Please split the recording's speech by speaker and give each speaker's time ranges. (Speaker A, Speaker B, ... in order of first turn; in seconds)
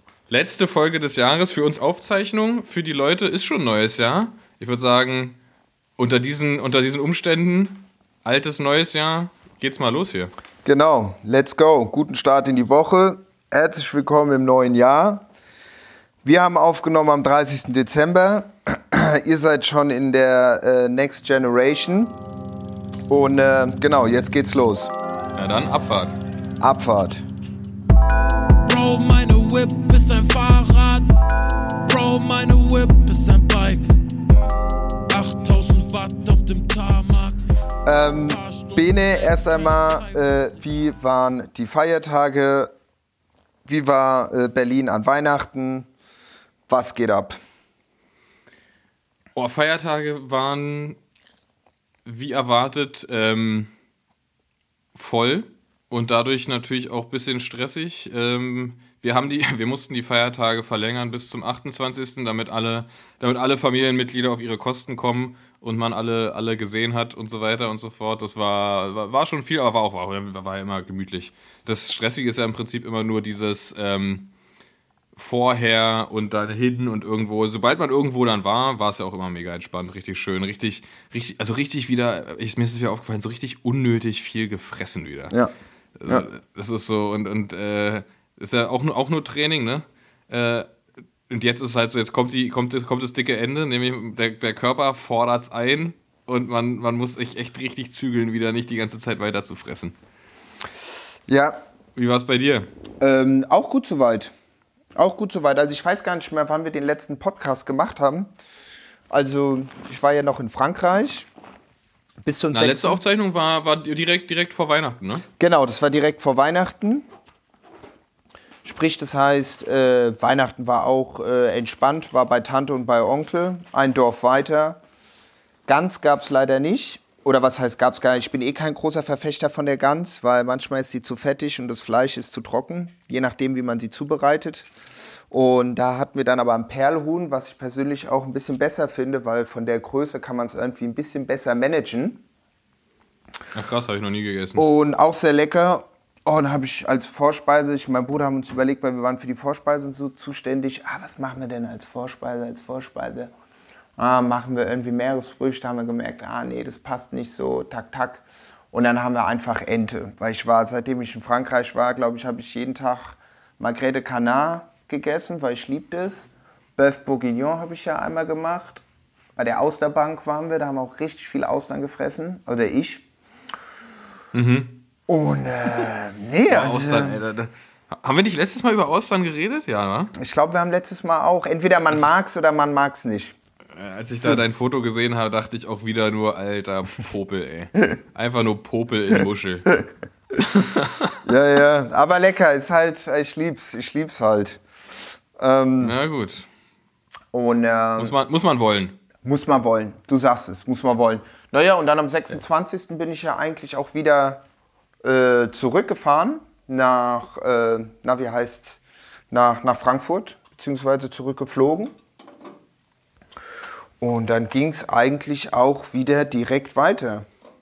Speaker A: 0.3-5.4, 6.0-10.3, 25.4-26.2, 49.4-51.0, 52.0-53.7, 55.0-74.3, 75.2-85.3, 86.0-90.7, 91.3-100.0, 102.0-102.7, 112.5-115.2, 143.5-144.7, 174.3-174.8, 176.5-180.1, 183.8-189.8, 190.4-191.2, 195.8-196.5, 198.0-199.0
Speaker B: 10.7-15.3, 16.2-22.2, 23.1-24.9, 26.6-27.2, 37.9-42.7, 43.7-45.9, 46.7-47.4, 101.3-101.6, 103.0-104.3, 105.0-108.3, 109.1-111.3, 112.2-113.0, 115.4-117.1, 118.6-124.8, 125.7-134.7, 135.3-142.2, 144.6-153.3, 154.0-168.8, 169.4-173.0, 175.1-177.2, 180.2-183.3, 191.2-194.6, 195.4-196.0, 197.3-198.1, 199.2-204.4, 205.0-208.8, 209.3-211.9, 214.0-217.3
Speaker C: 28.6-31.1, 31.9-34.0, 35.1-37.4, 38.2-40.2